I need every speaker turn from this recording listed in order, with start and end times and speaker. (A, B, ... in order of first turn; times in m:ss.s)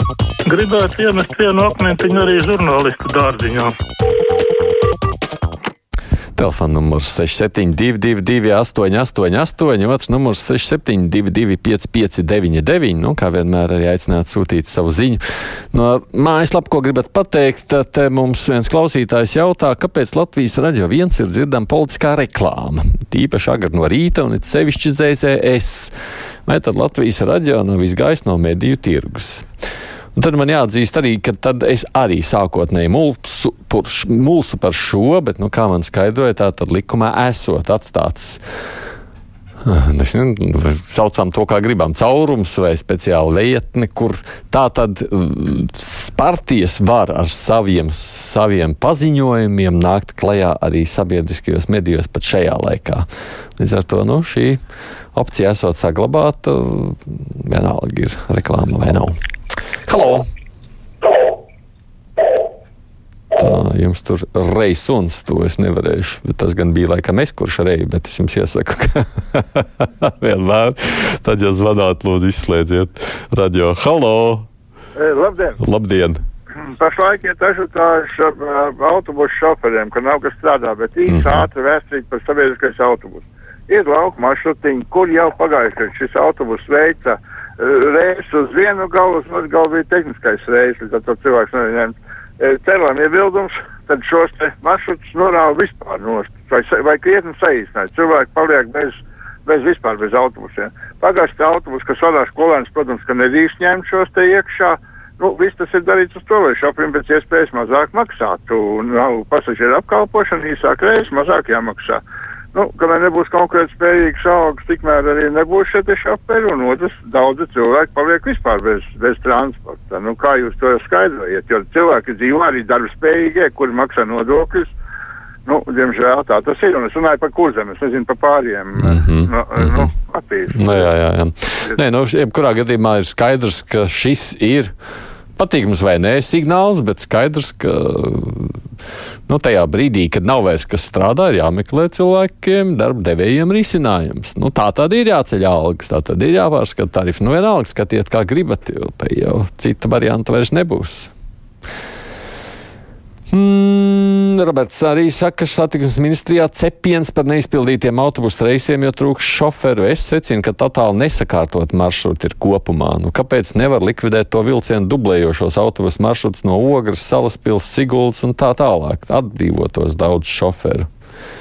0:00.5-0:03.7 A
0:06.4-0:15.2 B
0:15.7-0:25.9 B
0:26.5-0:29.5 B
0:30.2-0:38.4 B
0:39.6-0:53.1 B
0:53.6-0:54.6 B
0:55.2-0:59.2 B
0:59.9-1:00.2 B
1:03.4-1:14.5 B
1:15.0-1:15.6 C
1:15.6-1:16.2 B
1:16.7-1:52.0 C
1:21.1-1:21.5 B
1:52.5-2:04.8 C
2:05.5-2:10.9 C
2:08.8-2:09.9 B
2:10.5-2:14.7 B
2:15.4-2:18.6 B
2:19.3-2:31.1 B
2:33.3-2:50.9 B